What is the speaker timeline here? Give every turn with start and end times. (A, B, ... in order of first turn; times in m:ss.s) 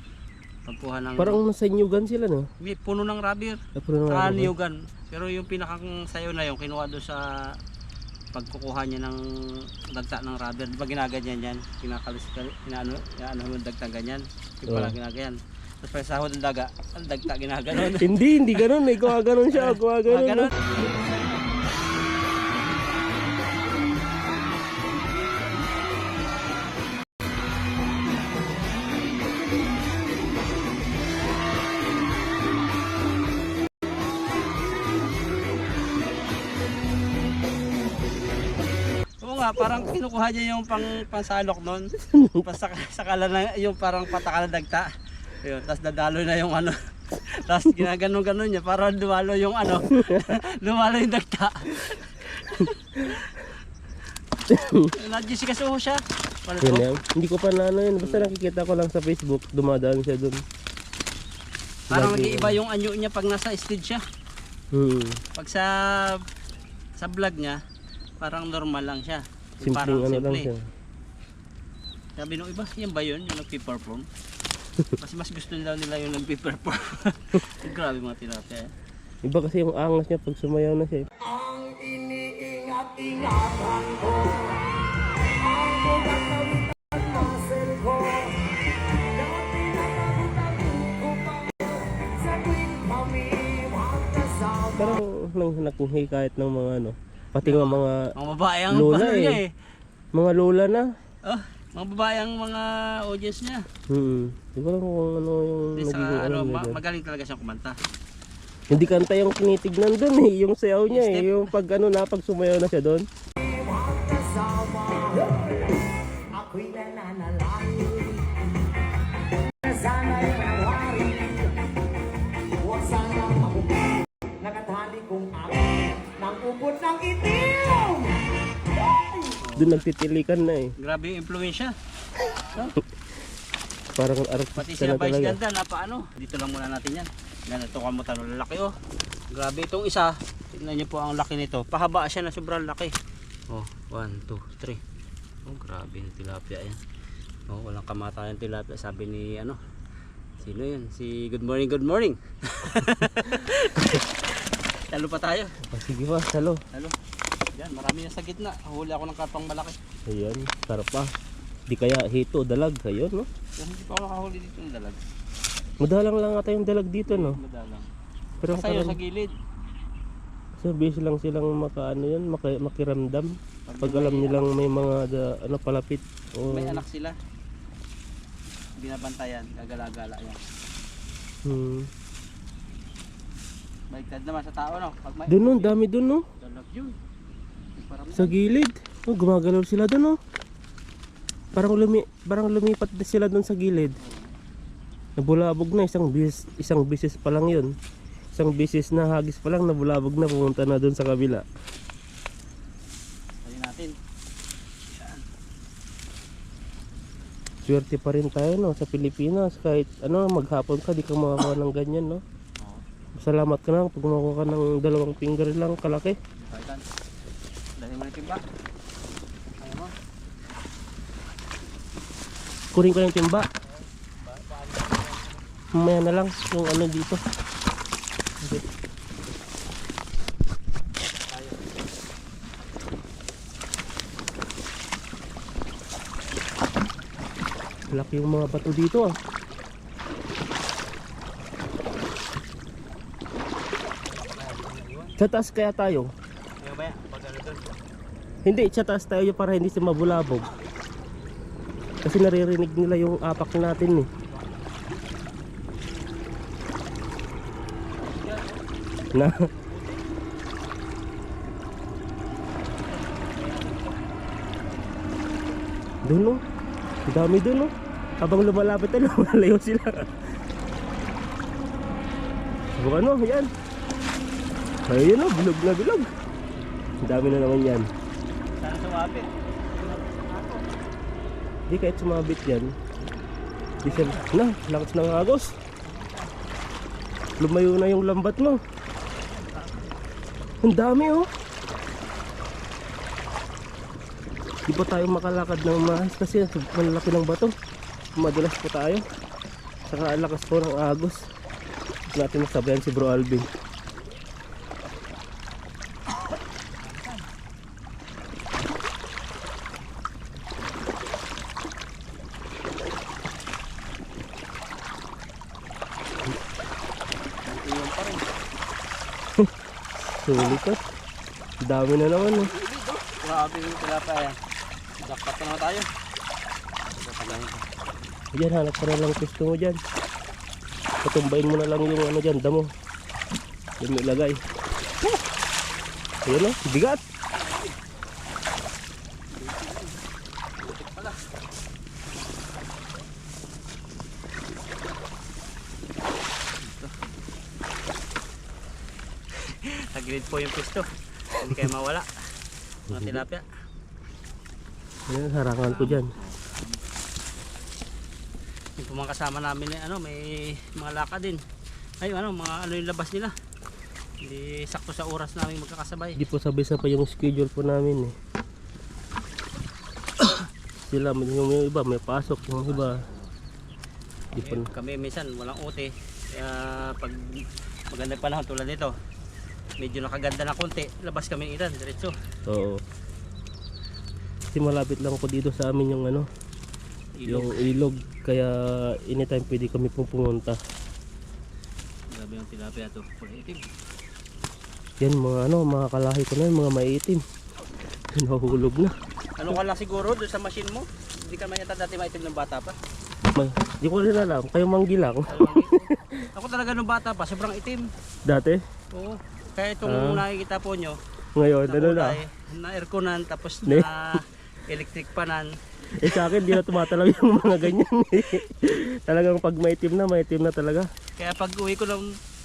0:00.6-0:01.4 A
0:01.2-0:02.5 B
0:02.6-0:07.6 A
0:03.8-0:04.5 B
0:08.3-0:20.7 A
0:14.7-0:14.9 B
0:17.8-0:20.5 B
0:39.2-0:41.9 A
0:42.1-0:42.4 B
0:42.4-0:53.5 A
0:49.9-0:50.3 B
0:53.0-0:53.2 B
0:54.5-0:54.9 B
0:54.9-0:56.8 A
0:56.6-1:00.4 B
0:58.0-0:58.3 A
1:01.9-1:04.0 A
1:01.9-1:02.6 B
1:04.7-1:05.2 B
1:05.4-1:06.2 A
1:07.0-1:07.6 A
1:08.2-1:10.5 A
1:09.6-1:10.6 B
1:12.2-1:14.1 A
1:15.0-1:18.7 A
1:19.2-1:21.1 B
1:21.2-1:24.6 C
1:25.2-1:35.0 C
1:34.8-1:38.1 B
1:37.4-1:39.5 A
1:38.7-1:39.4 B
1:40.1-1:40.9 B
1:41.2-1:43.6 A
1:43.9-1:46.8 B
1:45.8-1:47.8 A
1:48.7-1:53.0 B
1:50.9-1:51.5 A
1:53.4-1:58.3 C
1:59.6-2:01.6 C
2:02.5-2:09.4 C
2:09.4-2:09.8 A
2:09.6-2:10.7 B
2:10.8-2:11.7 A
2:14.0-2:15.4 B
2:14.6-2:18.7 A
2:19.3-2:22.9 A
2:23.5-2:24.8 A
2:25.4-2:26.8 A
2:27.5-2:29.6 A
2:30.4-2:35.5 A
2:35.7-2:36.6 B
2:37.5-2:39.8 A
2:40.1-2:41.1 B
2:41.7-2:43.3 B
2:43.6-2:45.0 A
2:45.8-2:47.4 B
2:47.1-2:47.9 A
2:48.4-2:49.0 B
2:48.5-2:49.3 A
2:50.6-2:56.8 B
2:53.7-2:54.7 A
2:56.5-2:57.2 A
2:58.8-3:00.4 A
3:01.4-3:01.9 B
3:03.9-3:05.8 A
3:05.3-3:06.2 B
3:06.4-3:07.0 A
3:07.8-3:08.4 A
3:08.1-3:10.2 B
3:11.5-3:13.9 B
3:14.0-3:14.3 A
3:15.2-3:17.7 B
3:18.3-3:21.4 B
3:23.4-3:23.9 A
3:24.9-3:25.2 A
3:27.6-3:32.2 B
3:33.2-3:36.2 B
3:36.4-3:36.8 A
3:37.8-3:38.4 A
3:39.6-3:39.9 A
3:42.7-3:43.5 B
3:43.6-3:45.7 A
3:45.7-3:47.2 B
3:51.2-3:51.7 A
3:57.9-3:59.2 B
4:04.0-4:05.2 A
4:05.2-4:06.1 B
4:06.6-4:07.6 A
4:08.4-4:10.5 B
4:12.0-4:14.1 B
4:14.3-4:14.7 A
4:18.0-4:18.6 A
4:19.1-4:19.4 B
4:19.5-4:20.0 A
4:22.6-4:24.1 A
4:26.0-4:26.4 B
4:27.1-4:30.1 B
4:32.8-4:33.5 B
4:34.9-4:36.1 B
4:37.0-4:37.9 B
4:38.5-4:40.7 A
4:41.7-4:42.7 B
4:43.8-4:45.5 B
4:43.8-4:44.3 A
4:47.4-4:48.6 B
4:49.3-4:49.9 A
4:50.6-4:51.3 B
4:54.7-4:57.5 B
4:58.2-4:59.0 B
4:59.8-5:01.2 B
5:02.1-5:03.5 B
5:06.9-5:07.2 A
5:17.5-5:18.3 A
5:19.4-5:20.8 B
5:21.6-5:22.5 B
5:22.2-5:24.4 A
5:25.0-5:25.9 A
5:27.0-5:27.6 A
5:28.3-5:29.8 B
5:31.0-5:32.7 B
5:33.8-5:34.4 B
5:36.2-5:37.0 B
5:37.4-5:37.7 A
5:39.3-5:40.0 A
5:40.6-5:41.2 A
5:46.6-5:47.1 A
5:49.3-5:52.1 A
5:52.9-5:53.4 A
5:52.9-5:53.2 B
5:55.1-5:56.1 B
5:55.6-5:56.8 A
5:58.8-6:01.4 A
6:02.0-6:03.3 A
6:04.2-6:06.2 A
6:06.2-6:08.1 B
6:10.8-6:13.0 B
6:12.6-6:13.3 A
6:14.3-6:14.7 B
6:14.3-6:18.9 A
6:19.8-6:22.1 A
6:22.5-6:22.8 B
6:24.5-6:26.3 B
6:27.2-6:27.7 A
6:27.3-6:28.6 B
6:29.1-6:30.6 B
6:32.1-6:33.6 A
6:35.0-6:37.2 B
6:38.1-6:38.9 B
6:39.4-6:42.8 A
6:43.3-6:46.3 B
6:45.3-6:47.8 A
6:48.3-6:48.6 B
6:48.9-6:51.0 A
6:49.8-6:50.2 B
6:51.4-6:52.2 B
6:51.6-6:55.5 A
6:53.6-6:54.2 B
6:56.0-7:00.9 B
6:56.3-6:56.6 A
7:01.2-7:02.1 A